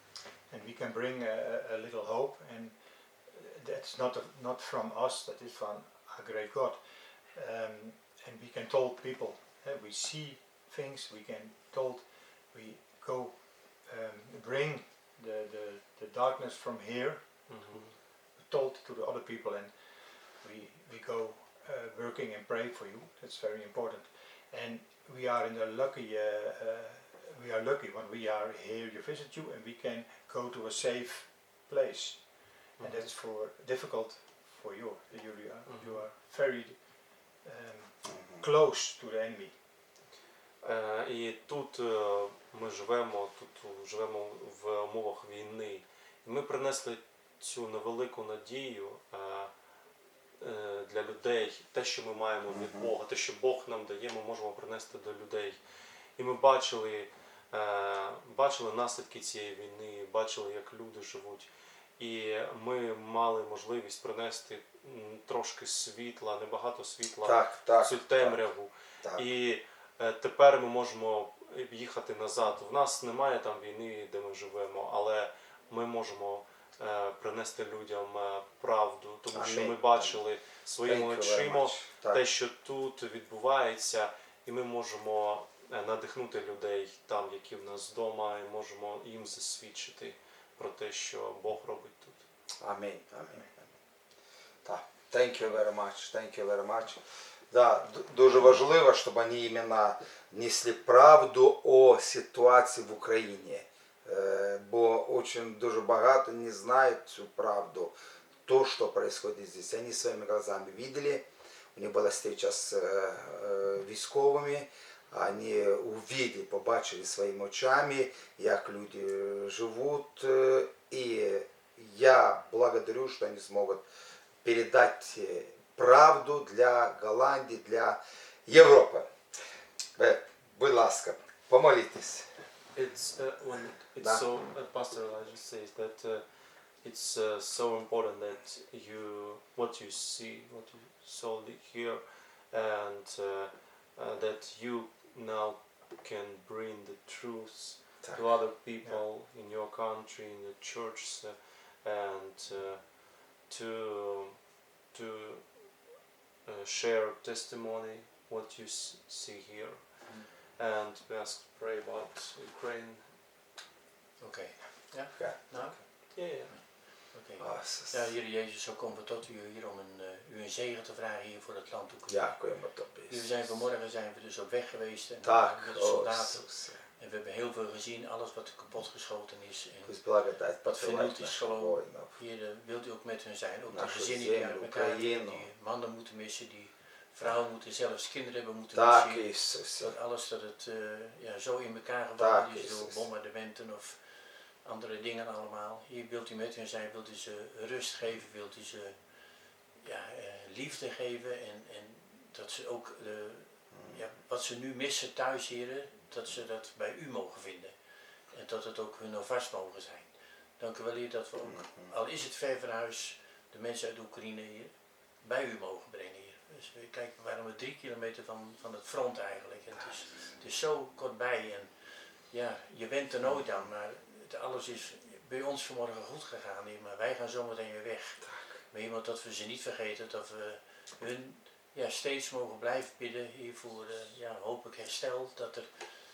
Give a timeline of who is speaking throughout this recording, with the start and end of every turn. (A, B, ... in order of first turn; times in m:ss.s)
0:00.5-0:39.6 A
0:17.5-0:18.0 B
0:32.8-0:33.1 B
0:35.6-0:36.1 B
0:40.6-0:49.5 B
0:50.4-0:55.6 B
0:52.5-0:52.9 C
0:56.2-1:32.2 B
1:07.2-1:08.4 C
1:19.3-1:20.2 C
1:20.8-1:22.2 C
1:32.6-1:33.6 C
1:34.6-1:37.0 C
1:37.5-1:47.9 C
1:48.5-1:51.2 C
1:51.8-2:03.8 C
2:04.4-2:09.0 C
2:10.0-2:12.3 C
2:12.8-2:16.2 B
2:16.8-2:34.4 B
2:34.9-2:35.7 B
2:36.5-2:40.1 B
2:40.6-2:43.1 B
2:44.2-2:52.5 D
2:45.1-2:45.7 C
2:46.1-2:46.5 B
2:47.4-2:48.1 C
2:52.1-2:53.3 C
2:53.1-3:00.0 D
2:55.2-2:56.8 C
2:59.9-3:02.2 C
3:00.6-3:19.0 D
3:03.7-3:05.5 C
3:08.7-3:09.9 C
3:12.2-3:13.0 C
3:19.8-3:27.8 D
3:28.3-3:41.7 D
3:42.3-3:55.7 D